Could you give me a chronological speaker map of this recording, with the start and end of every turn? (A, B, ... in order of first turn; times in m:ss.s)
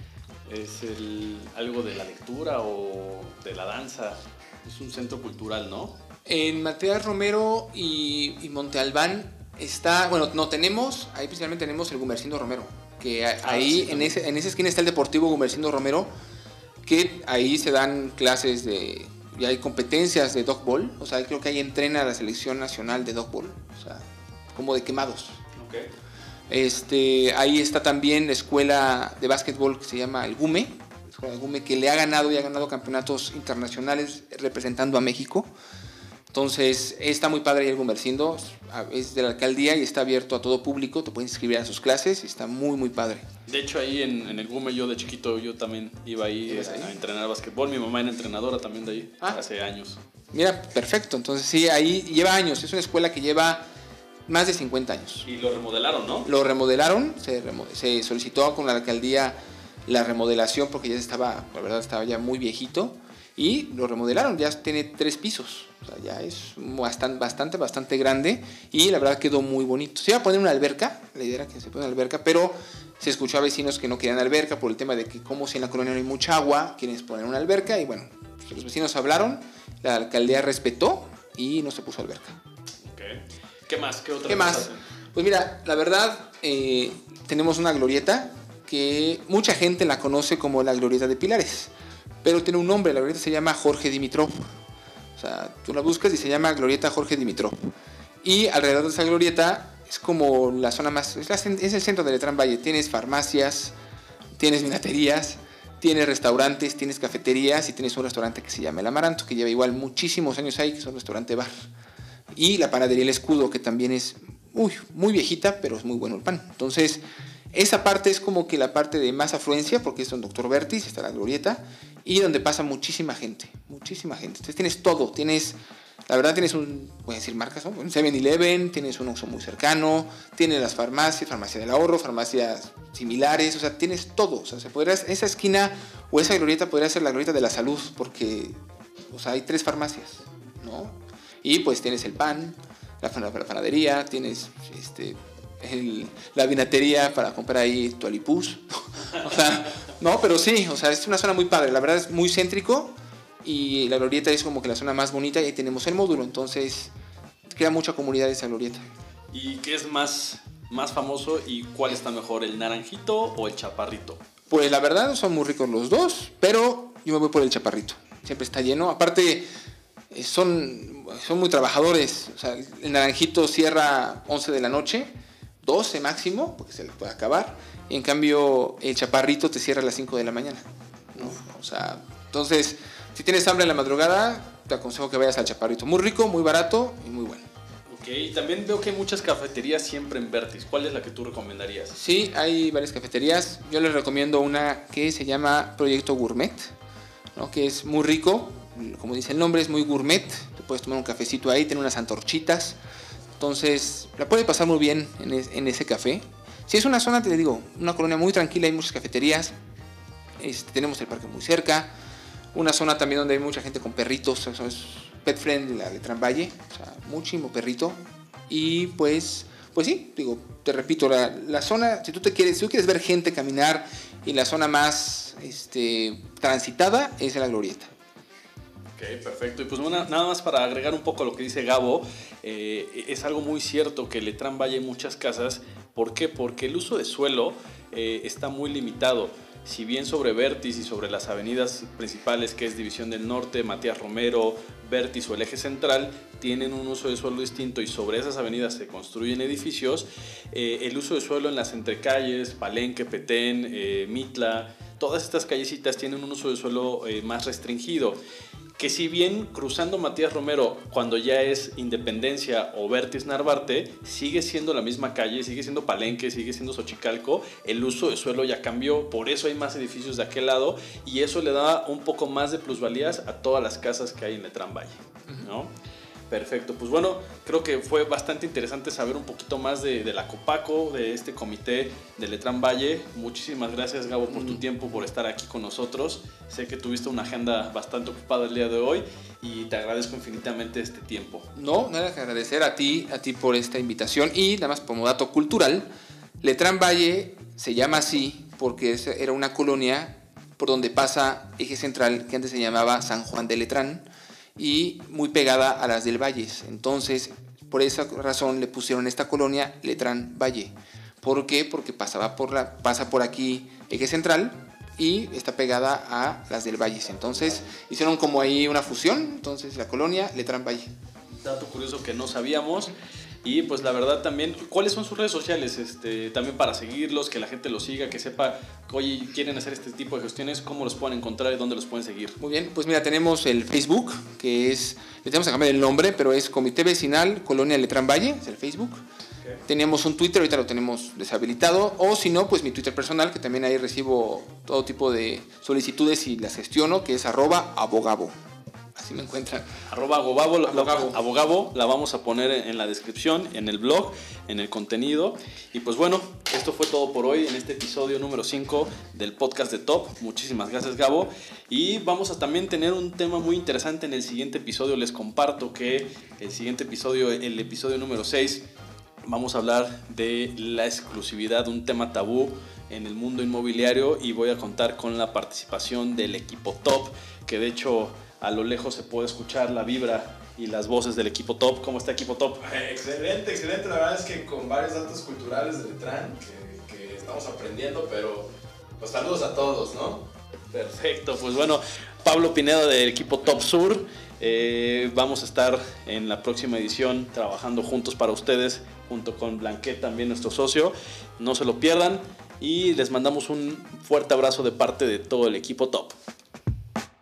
0:00.5-0:06.0 A
0:06.2-0:16.1 B
0:13.4-0:14.1 A
0:16.8-0:25.4 B
0:25.6-0:25.9 A
0:26.5-0:35.5 B
0:36.3-0:43.2 B
0:43.5-0:50.0 A
0:46.5-0:46.9 B
0:50.3-0:53.6 B
0:54.3-0:55.3 B
0:55.2-0:56.3 A
0:56.2-1:22.4 B
1:22.8-1:24.8 A
1:24.2-1:31.7 B
1:32.2-1:34.5 B
1:35.2-1:37.7 B
1:38.2-1:43.7 B
1:44.4-1:51.6 B
1:52.3-1:57.0 B
1:57.5-2:05.6 B
2:06.1-2:18.6 B
2:19.1-2:36.9 B
2:37.5-2:38.8 B
2:39.3-2:44.2 A
2:44.5-2:49.5 B
2:50.1-2:55.1 B
2:55.6-3:00.6 B
3:01.1-3:07.5 B
3:07.9-3:12.0 A
3:11.9-3:16.7 B
3:17.3-3:22.8 B
3:23.4-3:29.5 B
3:30.4-3:31.9 B
3:32.5-3:47.9 B
3:49.0-4:18.2 A
4:18.8-4:35.7 A
4:36.3-4:51.5 A
4:44.3-4:44.6 B
4:51.5-4:55.9 B
4:56.4-5:20.9 B
5:21.4-5:32.4 A
5:32.4-5:39.0 B
5:39.7-5:48.3 B
5:49.0-5:49.7 B
5:49.9-6:08.7 A
5:50.6-5:51.2 B
6:09.2-6:28.0 A
6:23.0-6:28.4 C
6:29.0-6:30.2 C
6:29.0-6:30.1 A
6:30.7-6:46.1 A